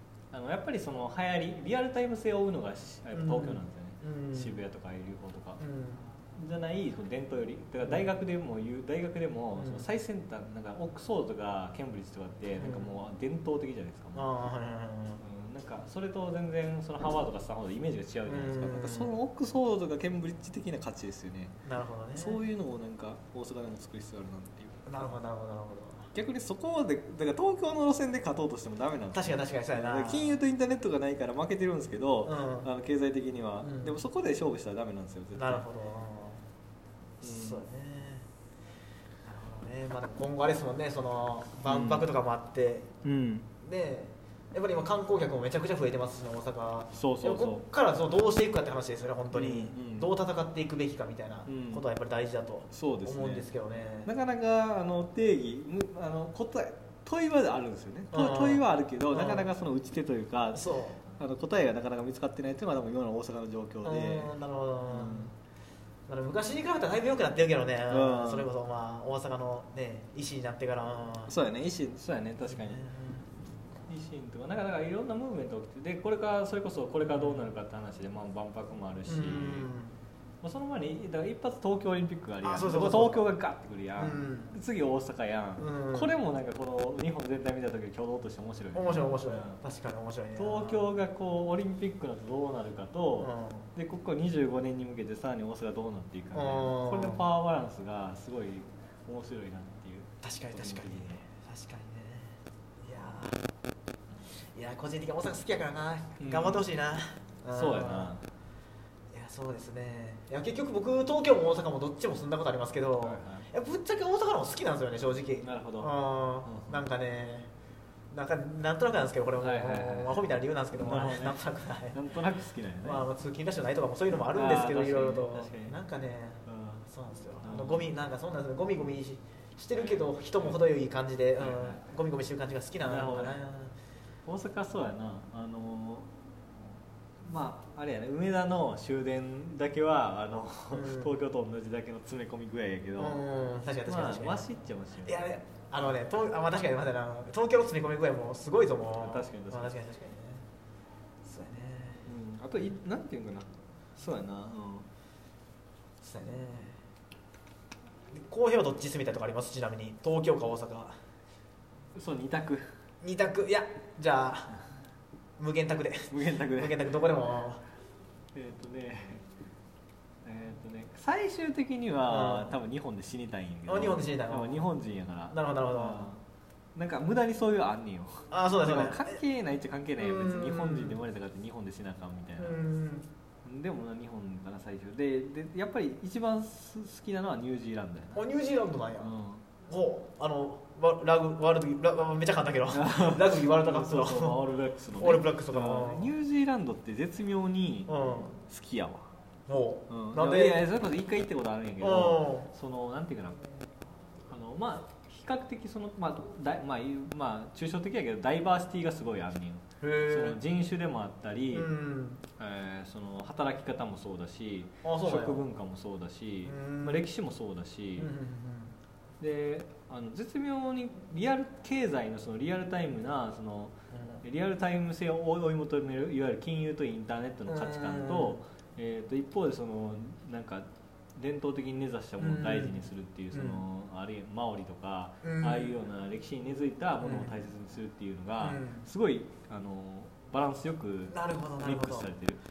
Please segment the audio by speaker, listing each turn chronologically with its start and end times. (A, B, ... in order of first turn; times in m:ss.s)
0:00.3-0:05.6 A
0:03.1-0:04.6 B
0:05.6-0:06.1 B
0:06.4-0:14.3 A
0:09.6-0:09.9 B
0:12.6-0:12.9 B
0:14.1-0:15.2 B
0:15.2-0:21.5 A
0:18.2-0:19.1 B
0:21.6-0:22.4 B
0:22.2-0:24.8 A
0:24.8-0:26.1 B
0:26.1-0:35.6 A
0:29.1-0:30.4 B
0:32.2-0:32.7 B
0:33.6-0:34.0 B
0:35.3-0:36.4 B
0:37.2-0:37.6 A
0:37.2-0:38.3 B
0:39.2-0:42.9 B
0:41.6-0:42.1 A
0:43.0-0:43.5 A
0:43.6-0:54.1 B
0:46.9-0:47.6 A
0:49.3-0:50.1 A
0:51.4-0:51.8 A
0:52.7-0:53.4 A
0:54.0-1:00.6 A
0:58.1-0:59.5 B
1:00.5-1:01.0 B
1:01.2-1:04.3 A
1:03.8-1:05.3 B
1:04.9-1:05.3 A
1:06.1-1:11.3 B
1:07.9-1:08.5 A
1:11.3-1:12.8 A
1:12.4-1:13.2 B
1:13.9-1:19.7 A
1:17.0-1:17.4 B
1:19.1-1:19.9 B
1:20.4-1:29.6 A
1:22.4-1:23.2 B
1:24.0-1:24.5 B
1:25.6-1:26.1 B
1:28.7-1:30.9 B
1:30.4-1:41.2 A
1:33.2-1:33.7 B
1:36.3-1:37.2 B
1:40.2-1:43.4 B
1:44.5-1:48.1 B
1:46.2-1:46.7 A
1:47.5-1:48.2 A
1:49.1-1:57.5 B
1:53.0-1:53.5 A
1:55.4-1:55.9 A
1:56.4-1:56.8 A
1:58.1-2:02.0 B
1:59.4-2:03.0 A
2:02.8-2:13.7 B
2:04.3-2:05.8 A
2:06.4-2:06.8 A
2:07.4-2:07.9 A
2:09.7-2:10.6 A
2:11.4-2:11.8 A
2:12.8-2:13.4 A
2:14.2-2:16.1 A
2:17.2-2:23.2 A
2:20.7-2:21.2 B
2:23.0-2:24.5 B
2:23.8-2:25.2 A
2:25.0-2:30.4 B
2:29.0-2:29.7 A
2:31.2-2:32.1 B
2:32.0-2:34.9 A
2:36.0-2:36.8 B
2:38.1-2:41.0 B
2:41.9-2:42.6 A
2:43.0-2:44.6 B
2:45.4-2:47.6 B
2:46.1-2:47.0 A
2:48.3-2:49.2 A
2:50.2-2:56.2 A
2:52.1-2:52.6 B
2:53.7-2:54.7 B
2:55.3-2:56.1 B
2:56.7-3:02.6 A
2:58.3-2:59.2 B
3:00.0-3:01.0 B
3:02.4-3:03.0 B
3:03.4-3:08.2 A
3:08.1-3:09.1 B
3:09.0-3:09.4 A
3:09.7-3:14.4 B
3:12.7-3:19.0 A
3:15.0-3:16.1 B
3:17.9-3:18.3 B
3:19.5-3:20.6 B
3:19.9-3:23.4 A
3:21.8-3:22.5 B
3:24.3-3:31.7 A
3:29.8-3:30.4 B
3:31.5-3:32.2 B
3:32.4-3:38.1 A
3:34.8-3:35.4 B
3:36.4-3:37.1 B
3:38.0-3:38.7 B
3:39.2-4:02.4 A
3:43.9-3:44.2 B
3:47.5-3:48.4 B
3:52.2-3:53.6 B
3:55.2-3:55.8 B
3:57.0-3:57.4 B
3:58.4-3:58.8 B
4:01.1-4:02.1 B